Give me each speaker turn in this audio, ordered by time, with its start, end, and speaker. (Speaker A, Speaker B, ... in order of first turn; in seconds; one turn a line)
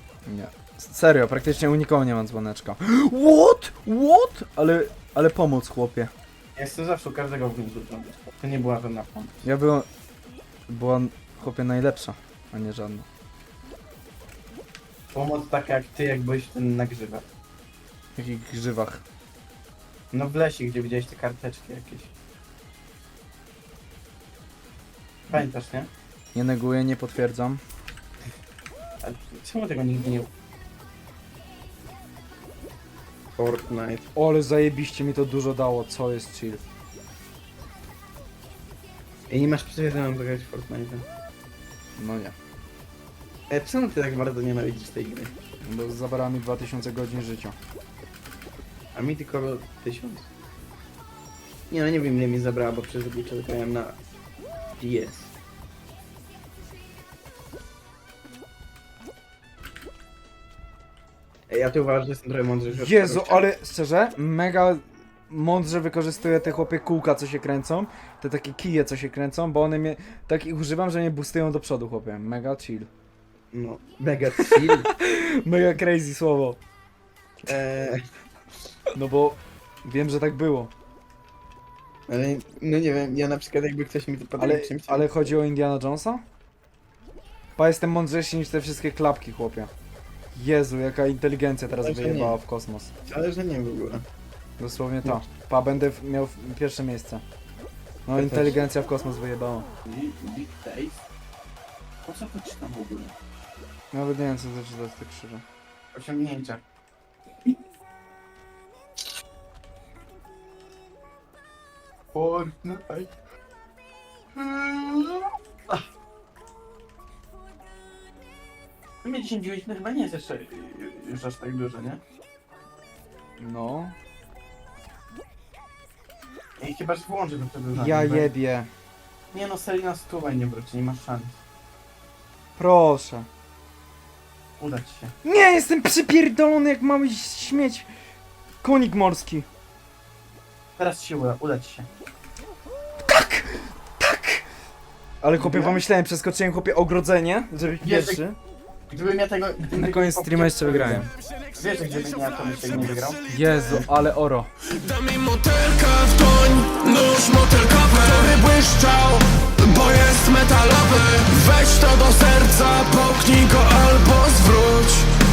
Speaker A: 0.2-6.1
Speaker B: 6.5-9.4
Speaker A: 9.4-9.9
Speaker A: 10.7-13.1
Speaker B: 15.1-17.3
Speaker A: 18.1-19.0
Speaker B: 20.1-22.1
Speaker B: 25.3-25.9
Speaker A: 26.3-27.6
Speaker B: 29.0-30.3
Speaker B: 33.4-34.1
Speaker A: 34.1-36.6
Speaker B: 39.3-41.0
Speaker A: 42.0-42.3
Speaker B: 43.5-45.3
Speaker A: 45.6-47.5
Speaker B: 48.9-50.3
Speaker B: 51.7-54.0
Speaker B: 54.8-55.3
Speaker B: 61.5-63.5
Speaker A: 62.7-72.9
Speaker B: 73.5-74.9
Speaker A: 74.4-76.6
Speaker B: 77.5-78.0
Speaker A: 78.9-80.7
Speaker B: 82.1-85.1
Speaker A: 84.4-86.2
Speaker A: 87.5-89.7
Speaker A: 90.3-92.9
Speaker B: 91.7-92.4
Speaker B: 93.1-94.0
Speaker A: 94.6-97.2
Speaker A: 98.0-99.7
Speaker B: 98.1-98.7
Speaker B: 99.8-101.0
Speaker B: 102.0-103.1
Speaker A: 103.9-105.4
Speaker B: 105.9-106.6
Speaker B: 112.1-113.1
Speaker B: 114.3-115.8
Speaker B: 119.0-122.0
Speaker A: 123.4-123.9
Speaker B: 126.6-128.3
Speaker A: 127.7-128.7
Speaker B: 129.3-131.4
Speaker A: 132.6-133.3
Speaker B: 134.6-135.1
Speaker A: 135.2-137.9
Speaker A: 138.6-139.4
Speaker B: 140.8-141.9
Speaker A: 143.0-144.4
Speaker A: 145.2-148.4
Speaker B: 145.3-145.8
Speaker B: 147.8-148.2
Speaker B: 148.9-153.2
Speaker A: 149.7-151.1
Speaker A: 153.3-154.5
Speaker C: 154.8-165.1